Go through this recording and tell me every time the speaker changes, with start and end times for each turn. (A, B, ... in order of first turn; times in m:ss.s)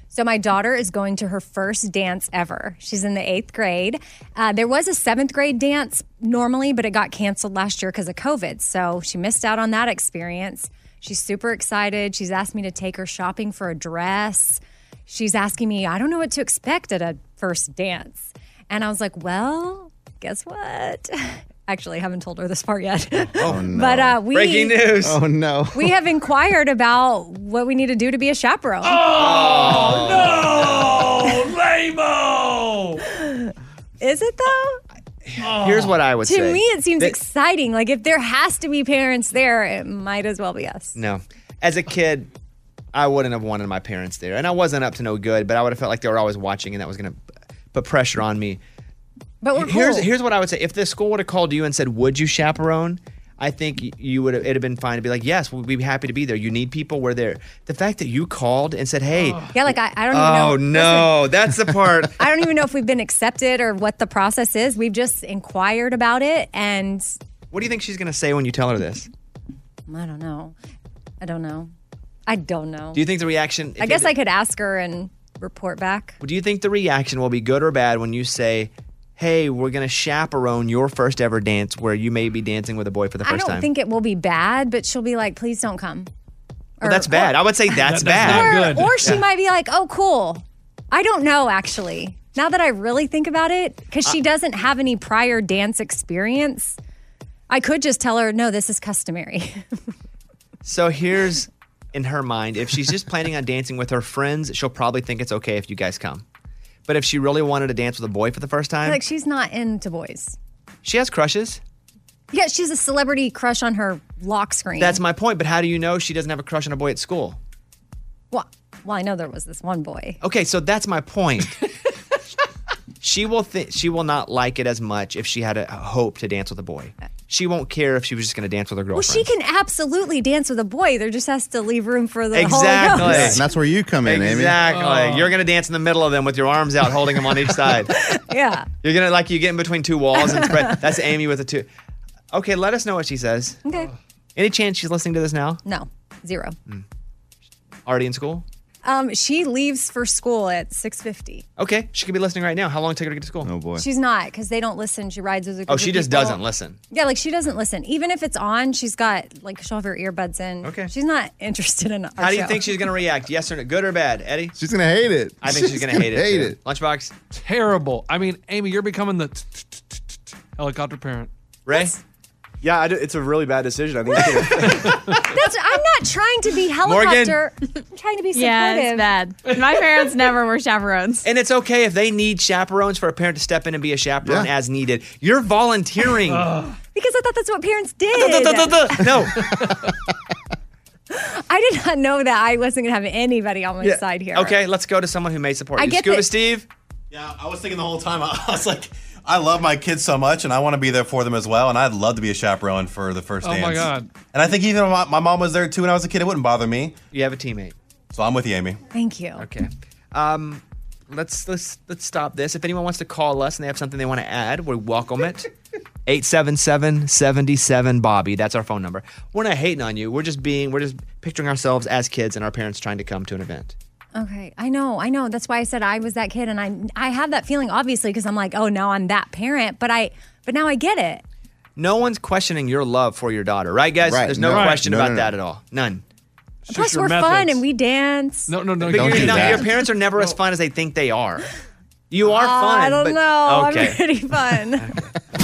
0:00.1-0:24.8 A
0:23.4-0:24.2 B
0:24.3-0:25.2 C
0:25.0-0:25.9 B
0:25.8-0:29.1 A
0:28.8-0:33.0 D
0:29.1-0:31.0 C
0:33.0-0:34.8 A
0:35.2-0:37.2 C
0:35.4-0:36.0 D
0:36.3-0:41.0 A
0:41.0-0:42.3 C
0:42.9-0:47.2 C
0:47.7-0:48.6 C
0:49.4-0:50.1 A
0:49.5-0:59.6 C
0:59.2-0:59.4 D
0:59.5-1:01.2 A
1:00.1-1:02.2 C
1:02.2-1:07.2 A
1:07.5-1:09.1 C
1:09.9-1:10.6 A
1:11.2-1:11.7 A
1:12.3-1:13.0 A
1:12.9-1:14.1 C
1:13.8-1:16.2 A
1:16.2-1:23.7 C
1:23.2-1:26.1 A
1:26.8-1:27.4 A
1:26.8-1:29.2 C
1:27.8-1:29.0 D
1:28.2-1:36.8 A
1:37.5-1:39.6 A
1:40.6-1:46.2 C
1:46.9-1:49.0 C
1:48.8-1:50.4 A
1:50.8-1:51.6 C
1:52.3-1:55.0 A
1:54.8-1:57.4 C
1:58.3-2:00.2 A
2:00.2-2:01.6 C
2:03.0-2:09.3 C
2:08.9-2:13.4 A
2:12.3-2:13.4 C
2:13.0-2:14.6 B
2:14.0-2:17.9 C
2:14.7-2:15.3 D
2:17.9-2:18.7 A
2:18.8-2:21.7 C
2:20.2-2:20.8 A
2:22.3-2:23.6 C
2:23.7-2:23.9 A
2:24.4-2:25.6 C
2:25.6-2:26.6 A
2:27.9-2:28.4 C
2:28.8-2:31.4 A
2:31.6-2:33.5 C
2:33.4-2:33.8 B
2:33.8-2:36.4 A
2:35.7-2:36.8 C
2:36.9-2:42.7 A
2:40.6-2:40.9 C
2:42.2-2:44.5 C
2:44.6-2:46.6 B
2:45.4-2:47.1 C
2:47.3-2:51.3 D
2:51.7-2:52.0 C
2:52.6-2:55.2 E
2:55.3-2:59.2 A
2:56.8-2:57.4 C
2:58.3-3:01.3 F
3:01.2-3:06.5 C
3:04.2-3:04.5 B
3:06.3-3:06.8 D
3:06.9-3:09.1 A
3:08.2-3:09.5 C
3:11.1-3:14.6 A
3:13.8-3:16.7 C
3:15.8-3:16.3 A
3:17.1-3:27.0 G
3:23.4-3:24.1 D
3:27.1-3:27.8 C
3:28.1-3:28.8 G
3:28.9-3:29.5 A
3:29.4-3:35.5 C
3:36.1-3:43.8 C
3:44.2-3:51.2 A
3:51.8-3:56.0 C
3:54.0-3:55.3 B
3:54.5-3:54.8 D
3:56.7-3:57.6 D
3:56.7-3:58.5 A
3:58.5-3:59.6 D
3:58.8-4:01.5 C
3:58.9-3:59.7 B
4:02.1-4:04.0 C
4:02.3-4:04.9 A
4:04.5-4:05.0 C